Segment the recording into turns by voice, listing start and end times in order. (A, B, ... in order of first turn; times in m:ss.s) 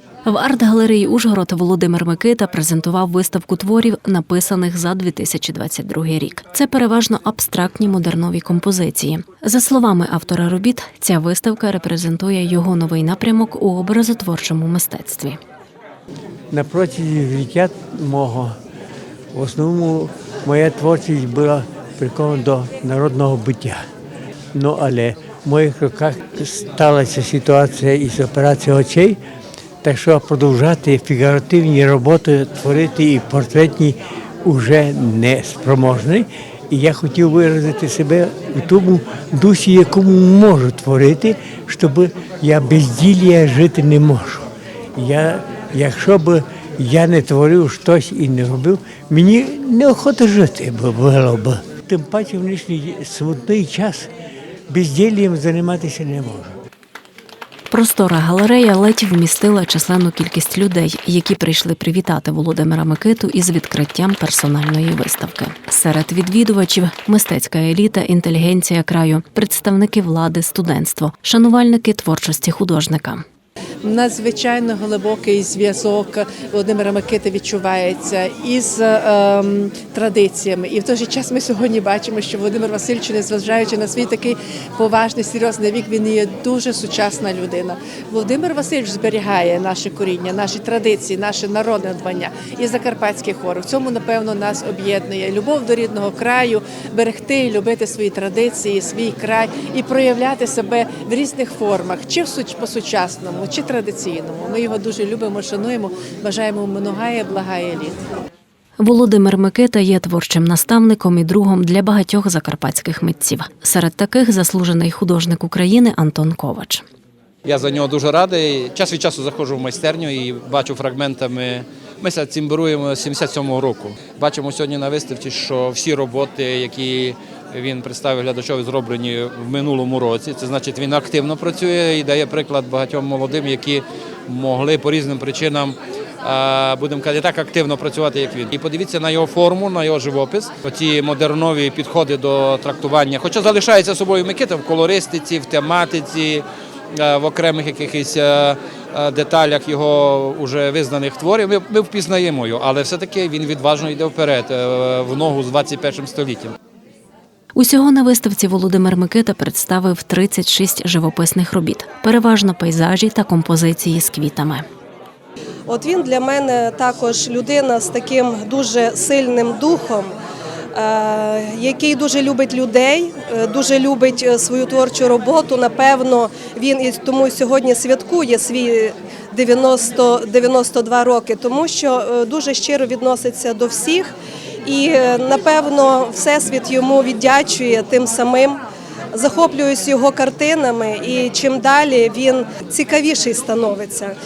0:00.3-0:15.4 A
0:16.5-0:18.6 B
0:19.3-0:23.8 B
0:24.5-0:29.2 B
0:29.8-0:54.1 B
0:54.7-0:56.5 B
0:57.7-1:13.2 A
1:13.8-1:48.0 C
1:48.8-1:56.8 A
1:57.4-2:36.6 D
2:37.6-2:44.6 A
2:45.7-2:50.1 E
2:50.7-3:08.6 E
3:09.1-3:14.2 E